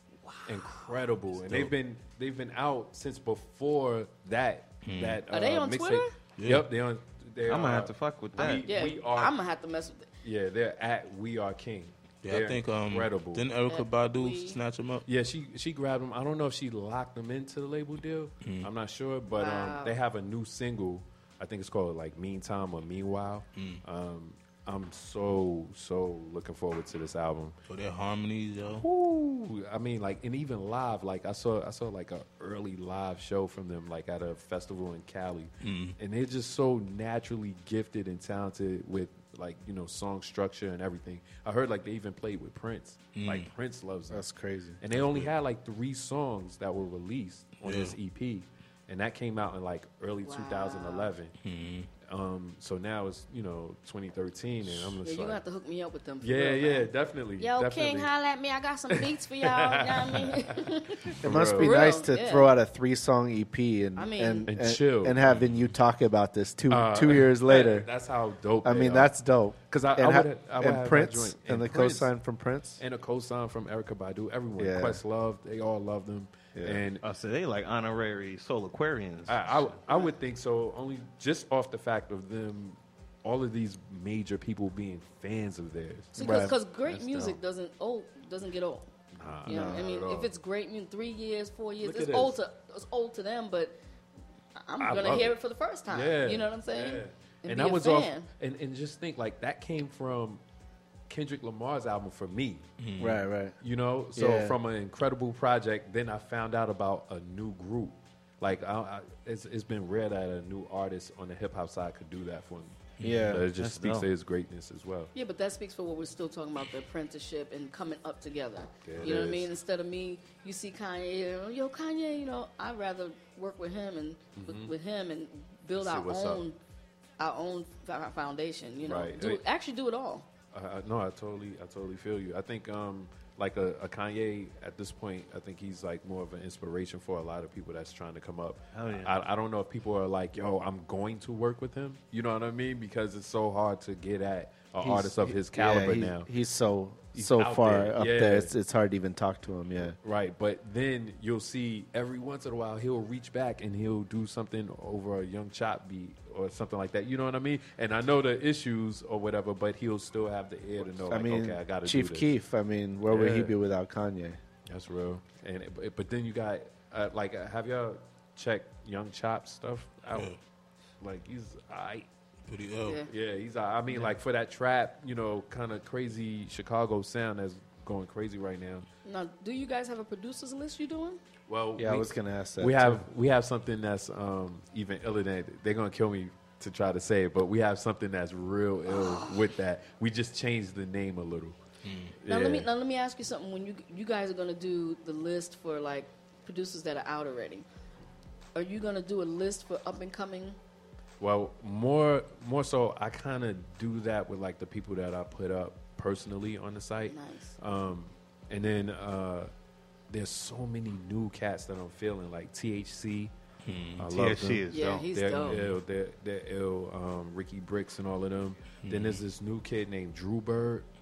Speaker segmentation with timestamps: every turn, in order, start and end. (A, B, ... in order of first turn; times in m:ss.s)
0:00.5-0:09.4 A
0:04.8-0:05.2 B
0:05.3-0:06.1 C
0:06.4-0:06.7 B
0:07.4-0:08.7 D
0:08.4-0:10.1 C
0:10.2-0:13.4 A
0:12.2-0:15.1 B
0:13.7-0:14.6 C
0:15.1-0:27.6 A
0:19.4-0:20.0 C
0:23.6-0:23.8 B
0:27.7-0:28.8 B
0:28.7-0:44.3 A
0:35.6-0:36.0 B
0:43.1-0:43.5 B
0:44.1-0:44.8 E
0:44.8-0:51.3 A
0:44.9-0:45.3 B
0:47.6-0:48.0 B
0:50.2-0:51.1 C
0:51.4-0:51.9 B
0:52.0-0:55.4 A
0:55.0-1:02.5 C
0:56.2-0:58.1 A
0:58.9-1:01.8 A
1:01.2-1:07.9 E
1:04.0-1:04.5 C
1:04.5-1:05.7 A
1:06.7-1:09.1 A
1:08.6-1:12.8 E
1:09.6-1:12.1 A
1:12.8-1:17.0 A
1:14.6-1:15.0 E
1:16.5-1:16.8 E
1:17.0-1:20.0 D
1:19.3-1:27.4 A
1:26.1-1:28.9 C
1:26.2-1:26.6 E
1:29.2-1:30.3 A
1:29.5-1:29.9 E
1:29.5-1:33.8 C
1:31.8-1:32.4 A
1:34.6-1:38.3 C
1:34.8-1:40.4 A
1:41.1-1:42.6 A
1:42.8-1:43.2 B
1:43.0-1:43.6 E
1:43.6-1:55.1 A
1:44.1-1:44.6 E
1:53.0-1:53.5 E
1:53.6-1:54.1 D
1:55.1-2:06.6 C
1:58.8-1:59.5 A
2:04.4-2:04.7 A
2:05.8-2:06.4 A
2:07.2-2:10.3 C
2:08.8-2:09.4 A
2:10.5-2:26.3 A
2:18.7-2:19.1 D
2:24.8-2:30.0 E
2:27.1-2:28.5 A
2:30.0-2:42.3 A
2:41.1-2:44.4 E
2:43.1-2:43.5 A
2:44.7-2:50.4 A
2:51.0-2:52.1 A
2:52.5-2:53.0 B
2:53.1-2:58.8 A
2:59.0-3:01.2 C
3:01.5-3:11.6 A
3:01.8-3:03.0 E
3:08.9-3:09.4 C
3:11.8-3:12.1 B
3:12.2-3:12.7 A
3:12.3-3:17.6 C
3:18.6-3:20.6 C
3:21.2-3:29.5 A
3:27.1-3:27.6 C
3:30.1-3:33.3 A
3:33.6-3:34.0 B
3:34.0-3:40.9 A
3:34.1-3:35.0 D
3:34.7-3:35.6 C
3:38.8-3:39.2 B